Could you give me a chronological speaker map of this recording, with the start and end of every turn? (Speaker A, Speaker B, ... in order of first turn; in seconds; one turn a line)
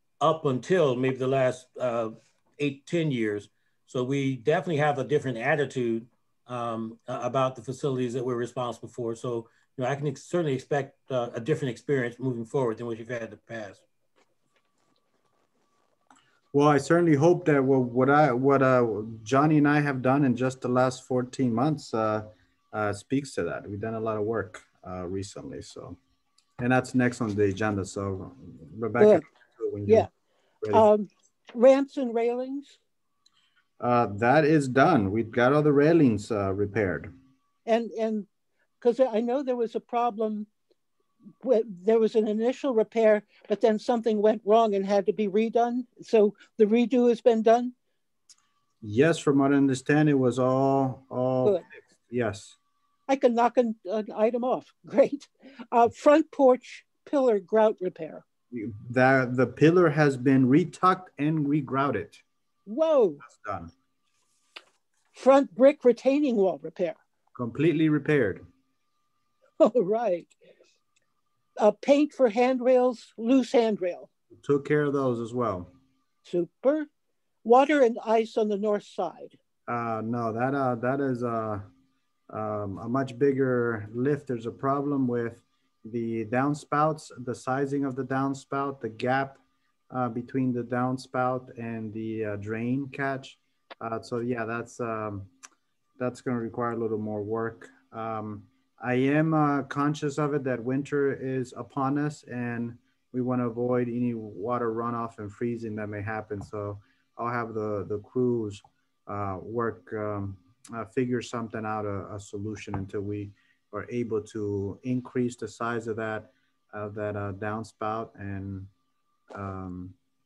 Speaker A: 0.2-13.8
Speaker B: 16.5-26.0
Speaker B: 26.6-30.1
Speaker B: 30.6-30.9
Speaker C: 30.7-32.8
Speaker B: 33.8-37.1
Speaker C: 37.7-38.3
Speaker C: 38.8-40.5
Speaker C: 41.4-47.7
Speaker B: 48.8-52.6
Speaker C: 53.1-58.2
Speaker B: 58.5-62.2
Speaker C: 62.7-63.2
Speaker B: 63.2-63.7
Speaker C: 65.1-67.0
Speaker B: 67.3-68.5
Speaker C: 69.6-70.4
Speaker C: 71.6-74.1
Speaker B: 74.4-75.7
Speaker C: 76.3-76.9
Speaker C: 77.4-79.4
Speaker B: 79.7-81.7
Speaker B: 82.3-95.3
Speaker B: 96.0-118.7
Speaker B: 119.3-120.0